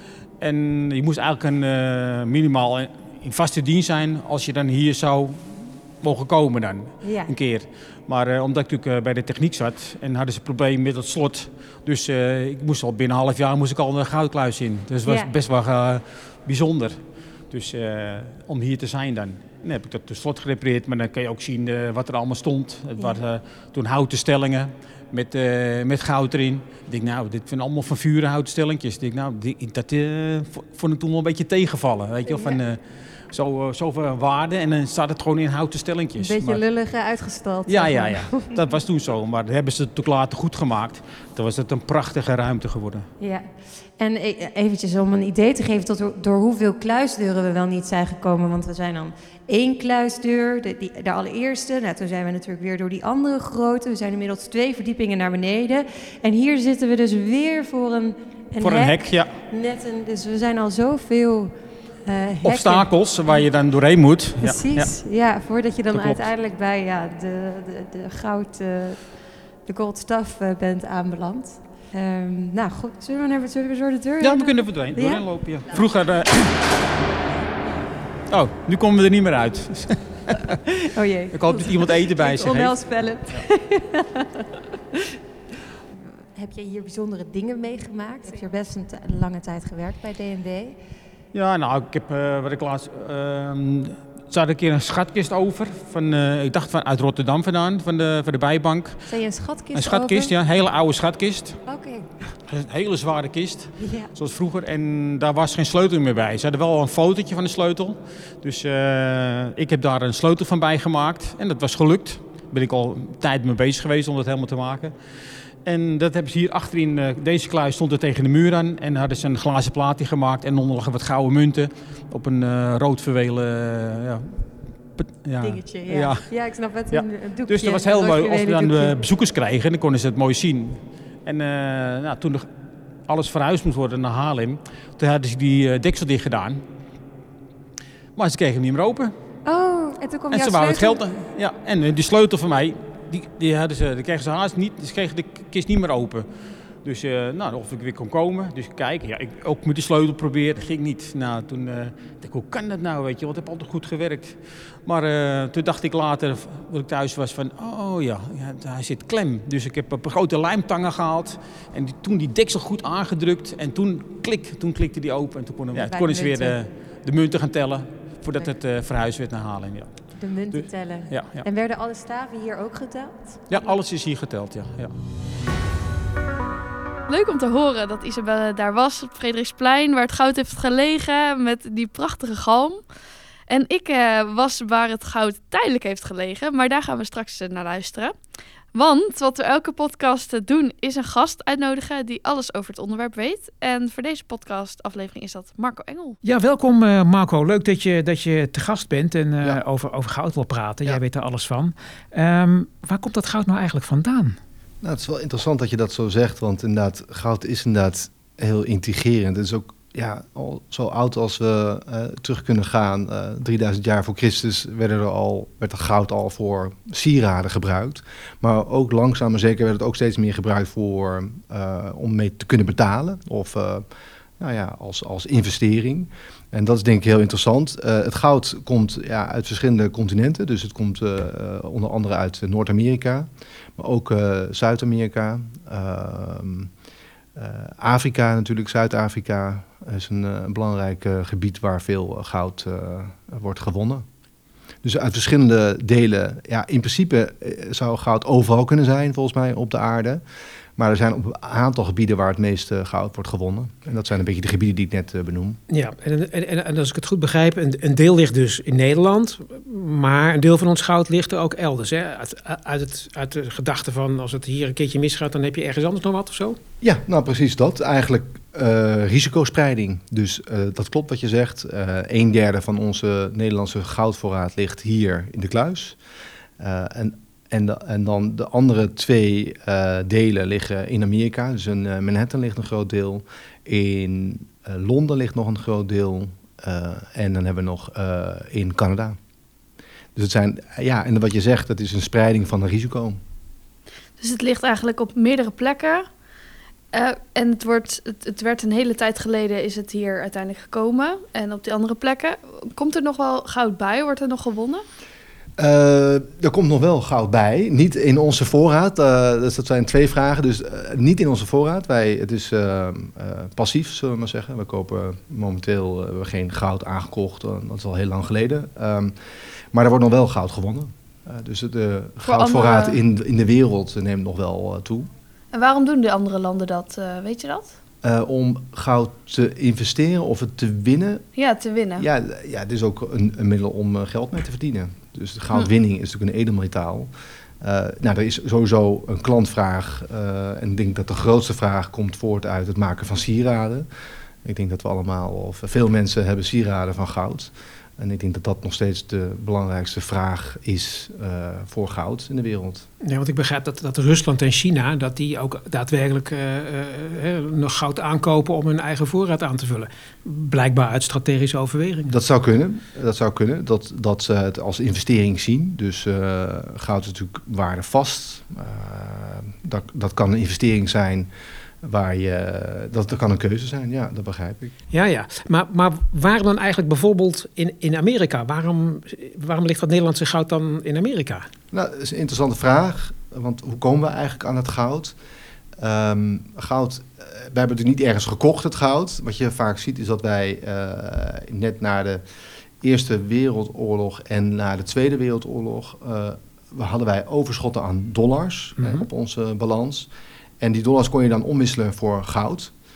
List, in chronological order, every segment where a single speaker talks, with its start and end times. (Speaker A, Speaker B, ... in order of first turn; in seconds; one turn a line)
Speaker A: 0.4-36.6
Speaker B: 7.0-7.3
Speaker B: 15.1-15.3
Speaker B: 32.3-32.6
Speaker B: 36.2-38.6
Speaker A: 37.6-43.1
Speaker B: 43.2-61.5
Speaker A: 58.6-59.3
Speaker B: 62.0-62.9
Speaker A: 62.4-64.9
Speaker B: 64.4-75.8
Speaker A: 65.9-66.2
Speaker A: 74.2-76.6
Speaker A: 78.3-80.5
Speaker B: 80.9-84.4
Speaker A: 81.3-82.8
Speaker B: 86.3-90.8
Speaker A: 91.3-99.0
Speaker B: 99.1-100.3
Speaker A: 99.7-101.6
Speaker B: 101.7-102.0
Speaker A: 102.5-114.9
Speaker B: 103.8-104.1
Speaker A: 115.6-132.4
Speaker B: 125.4-128.9
Speaker A: 133.1-136.6
Speaker A: 138.2-139.1
Speaker B: 139.4-141.0
Speaker A: 140.3-146.3
Speaker A: 146.8-171.4
Speaker B: 165.7-166.6
Speaker B: 170.2-173.7
Speaker A: 173.5-174.9
Speaker C: 177.1-182.8
Speaker C: 183.5-188.1
Speaker C: 188.7-196.2
Speaker D: 196.2-204.4
Speaker E: 204.8-223.8
Speaker E: 224.4-236.7
Speaker E: 237.3-244.0
Speaker E: 244.8-250.2
Speaker E: 250.8-255.6
Speaker D: 255.7-266.6
Speaker E: 266.8-276.0
Speaker E: 276.6-289.2
Speaker E: 290.1-293.2
Speaker C: 294.2-296.1
Speaker C: 296.9-304.8
Speaker E: 305.6-319.1
Speaker E: 319.7-325.1
Speaker C: 322.2-323.0
Speaker C: 325.5-327.7
Speaker E: 328.0-331.3
Speaker C: 331.4-332.1
Speaker E: 332.0-343.9
Speaker E: 344.4-352.9
Speaker D: 353.0-362.1
Speaker E: 362.1-371.3
Speaker E: 371.8-374.7
Speaker D: 374.9-381.4
Speaker E: 381.7-385.1
Speaker E: 385.8-392.2
Speaker E: 392.8-402.7
Speaker D: 398.8-399.1